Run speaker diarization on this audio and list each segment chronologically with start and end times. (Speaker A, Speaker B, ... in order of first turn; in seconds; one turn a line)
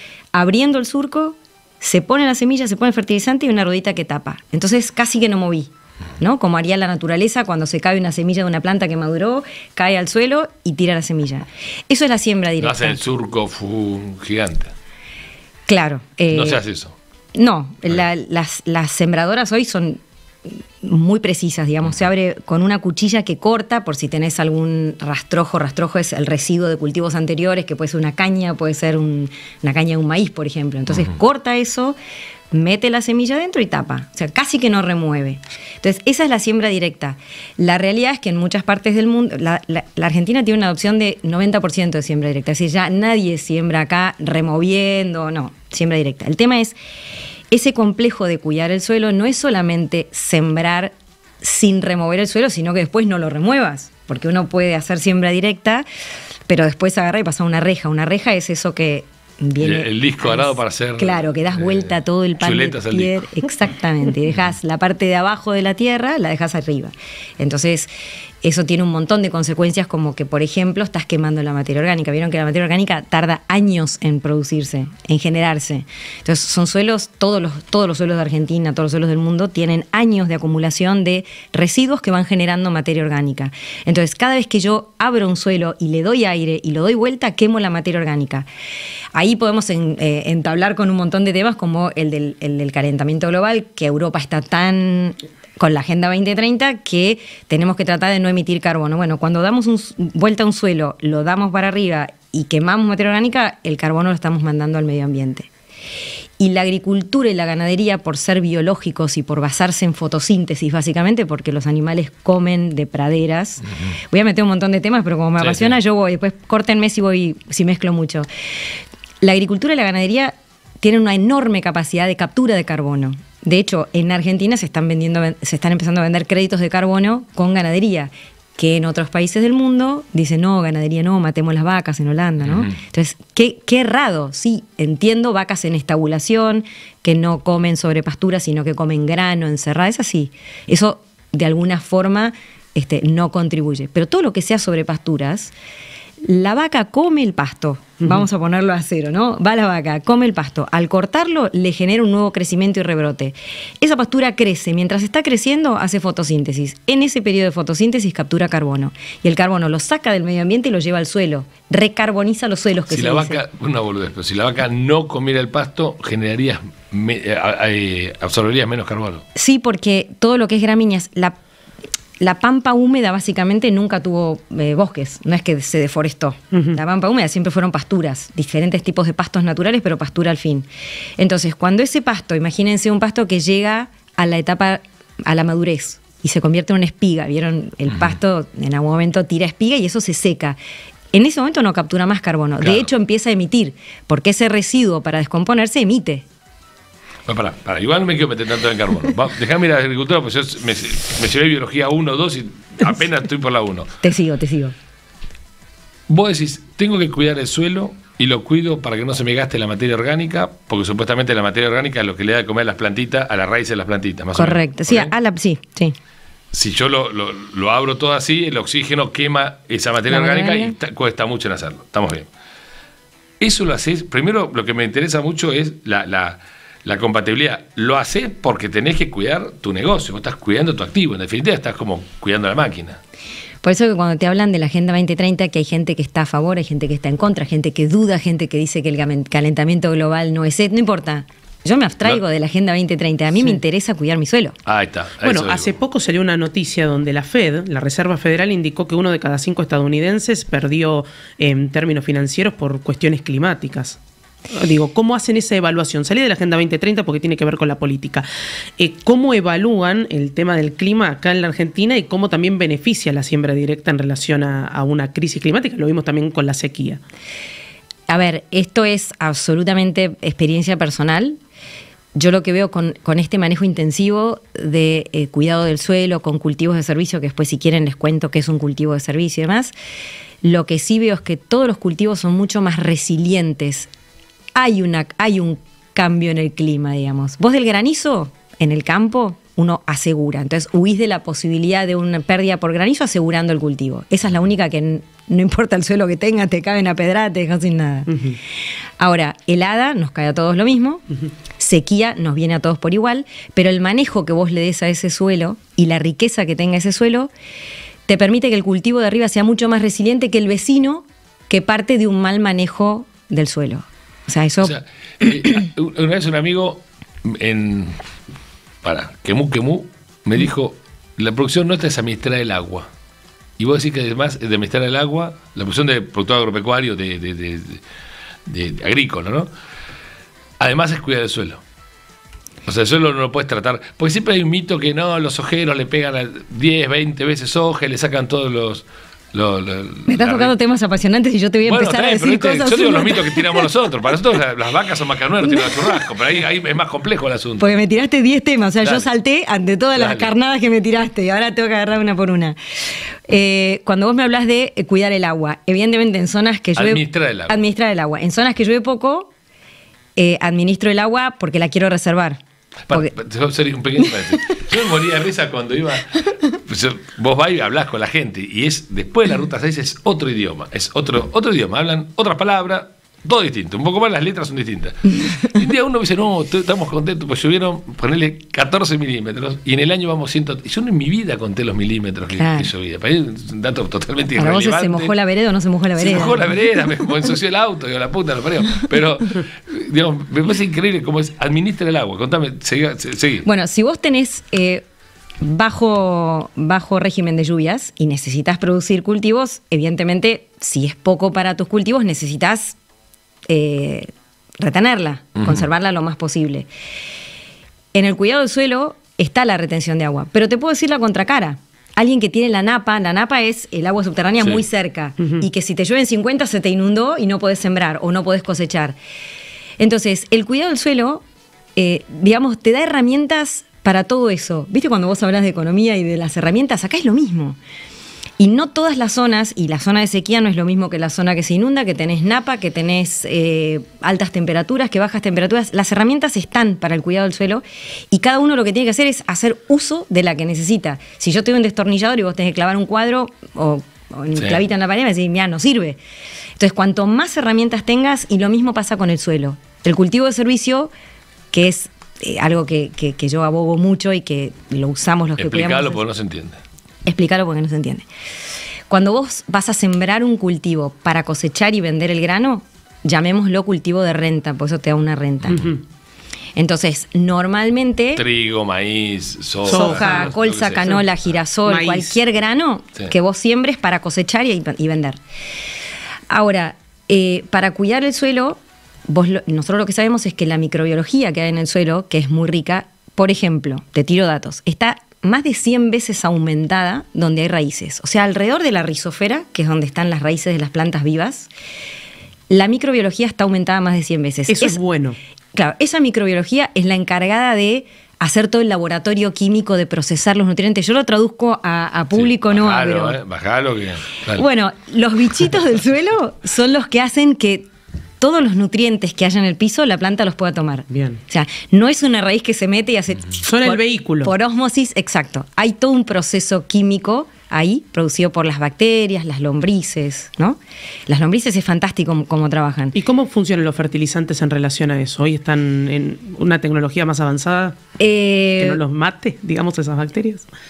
Speaker A: 0.3-13.0
Speaker B: 12.6-14.7
Speaker A: 15.7-16.6
Speaker B: 16.3-17.0
Speaker A: 17.4-32.0
Speaker A: 32.5-46.8
Speaker A: 47.5-55.9
Speaker A: 56.5-67.9
Speaker B: 59.6-63.3
Speaker A: 68.4-88.5
Speaker A: 89.2-105.5
Speaker A: 106.4-118.3
Speaker B: 115.4-115.8
Speaker A: 119.2-145.5
Speaker B: 132.4-132.8
Speaker A: 146.2-163.4
Speaker B: 162.9-169.2
Speaker A: 169.3-171.4
Speaker A: 172.2-180.7
Speaker C: 176.5-176.8
Speaker A: 181.2-190.6
Speaker A: 191.1-196.2
Speaker B: 192.6-192.9
Speaker B: 197.3-204.0
Speaker A: 204.0-204.8
Speaker B: 206.1-215.1
Speaker A: 214.4-215.9
Speaker B: 216.5-222.3
Speaker A: 220.1-220.8
Speaker B: 223.4-233.0
Speaker A: 233.6-244.6
Speaker B: 244.7-245.8
Speaker C: 245.2-254.0
Speaker C: 254.5-258.3
Speaker C: 258.8-267.0
Speaker A: 268.1-271.4
Speaker A: 272.1-279.7
Speaker A: 280.4-283.9
Speaker A: 284.6-298.1
Speaker C: 298.1-298.4
Speaker A: 299.0-301.0
Speaker A: 301.6-307.3
Speaker A: 308.1-314.8
Speaker B: 314.6-318.0
Speaker B: 318.8-322.9
Speaker B: 323.6-327.8
Speaker B: 328.5-329.5
Speaker B: 330.6-331.6
Speaker B: 332.7-340.5
Speaker A: 340.1-343.7
Speaker B: 341.7-347.8
Speaker A: 345.4-346.1
Speaker A: 347.6-352.6
Speaker B: 350.0-350.3
Speaker A: 353.3-359.3
Speaker B: 356.8-357.6
Speaker A: 360.2-362.4
Speaker B: 362.9-385.1
Speaker A: 375.2-375.5
Speaker A: 382.4-382.7
Speaker A: 384.4-386.5
Speaker B: 386.0-393.5
Speaker A: 393.4-394.8
Speaker A: 395.4-402.8
Speaker A: 403.5-406.7
Speaker B: 405.4-405.7
Speaker A: 407.9-419.0
Speaker A: 419.8-421.2
Speaker A: 421.8-427.6
Speaker A: 428.4-446.0
Speaker B: 444.4-444.6
Speaker A: 446.6-450.9
Speaker A: 451.5-456.0
Speaker B: 455.4-456.6
Speaker A: 457.1-458.1
Speaker A: 458.9-465.7
Speaker C: 465.5-465.8
Speaker A: 466.6-468.2
Speaker B: 468.2-471.1
Speaker C: 469.7-470.3
Speaker A: 469.7-475.2
Speaker C: 471.6-472.2
Speaker A: 476.3-491.5
Speaker A: 492.5-494.8
Speaker C: 494.5-495.2
Speaker A: 495.5-503.2
Speaker B: 502.1-504.4
Speaker A: 504.3-507.7
Speaker A: 508.2-523.0
Speaker C: 510.9-511.2
Speaker C: 513.4-514.3
Speaker C: 523.0-527.8
Speaker A: 528.0-528.8
Speaker C: 528.6-530.5